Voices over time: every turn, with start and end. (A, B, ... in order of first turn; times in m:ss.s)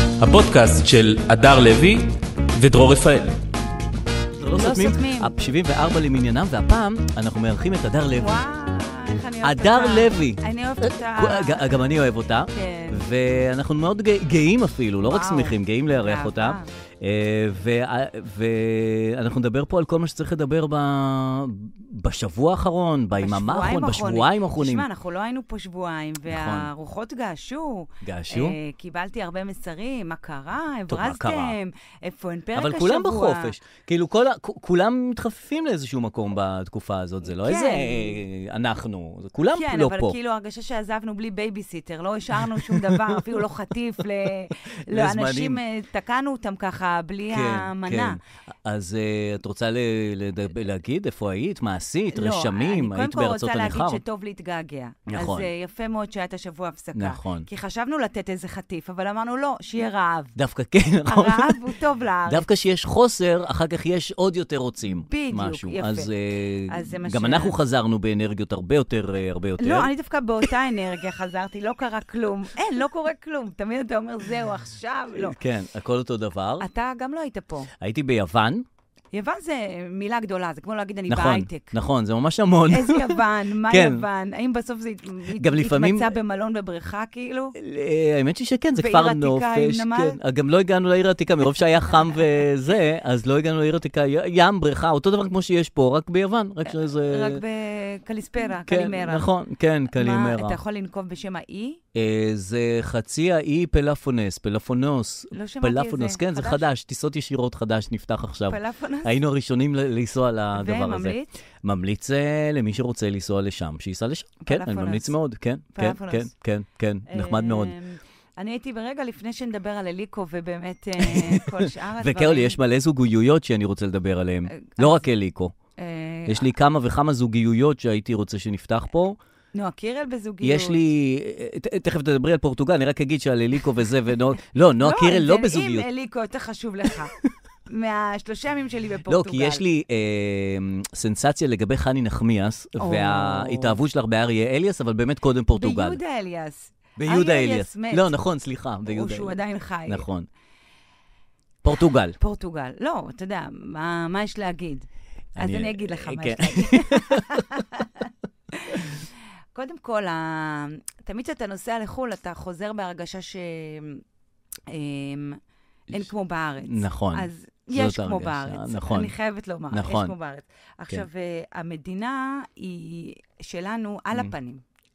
0:00.2-0:03.4 A
0:04.4-0:08.4 B
0:04.5-0:05.3 C
0:08.2-0:11.8 C
0:09.4-0:24.8 B
0:12.5-0:13.0 C
0:15.0-0:16.7 C
0:23.2-0:33.5 C
0:26.3-0:26.7 B
0:28.0-0:28.6 B
0:30.9-0:31.6 B
0:32.5-0:40.2 B
0:37.3-0:38.2 C
0:39.5-0:48.2 C
0:42.5-0:43.4 B
0:44.9-0:45.6 B
0:47.3-0:54.0 B
0:52.1-1:00.4 C
0:55.1-0:55.5 B
0:57.0-0:57.5 B
1:00.4-1:01.6 B
1:01.0-1:02.4 C
1:02.2-1:09.9 B
1:04.9-1:06.1 C
1:06.7-1:07.6 C
1:09.6-1:15.4 C
1:15.1-1:16.6 B
1:16.6-1:17.7 C
1:17.8-1:18.6 B
1:19.1-1:21.7 C
1:21.1-1:24.0 B
1:22.7-1:27.6 C
1:25.4-1:26.1 B
1:27.6-1:37.4 B
1:28.8-1:30.2 C
1:37.0-1:39.3 C
1:38.6-1:40.6 B
1:39.9-1:41.8 C
1:41.9-1:57.7 B
1:45.3-1:46.6 C
1:48.5-1:49.2 C
1:50.5-1:51.3 C
1:54.4-1:55.1 C
1:55.7-1:56.3 C
1:57.1-2:02.6 C
2:01.0-2:05.5 B
2:04.5-2:05.1 C
2:05.8-2:06.5 C
2:06.3-2:09.2 B
2:09.5-2:10.8 C
2:10.4-2:15.9 B
2:14.8-2:17.1 C
2:17.7-2:19.6 C
2:19.1-2:26.0 B
2:22.8-2:23.8 C
2:25.5-2:28.1 C
2:27.0-2:29.3 B
2:28.9-2:30.0 C
2:29.8-2:30.3 B
2:31.6-2:32.2 B
2:32.2-2:39.0 C
2:35.4-2:37.4 B
2:39.5-2:44.0 C
2:44.7-2:54.6 C
2:46.6-2:49.1 B
2:49.7-2:50.1 B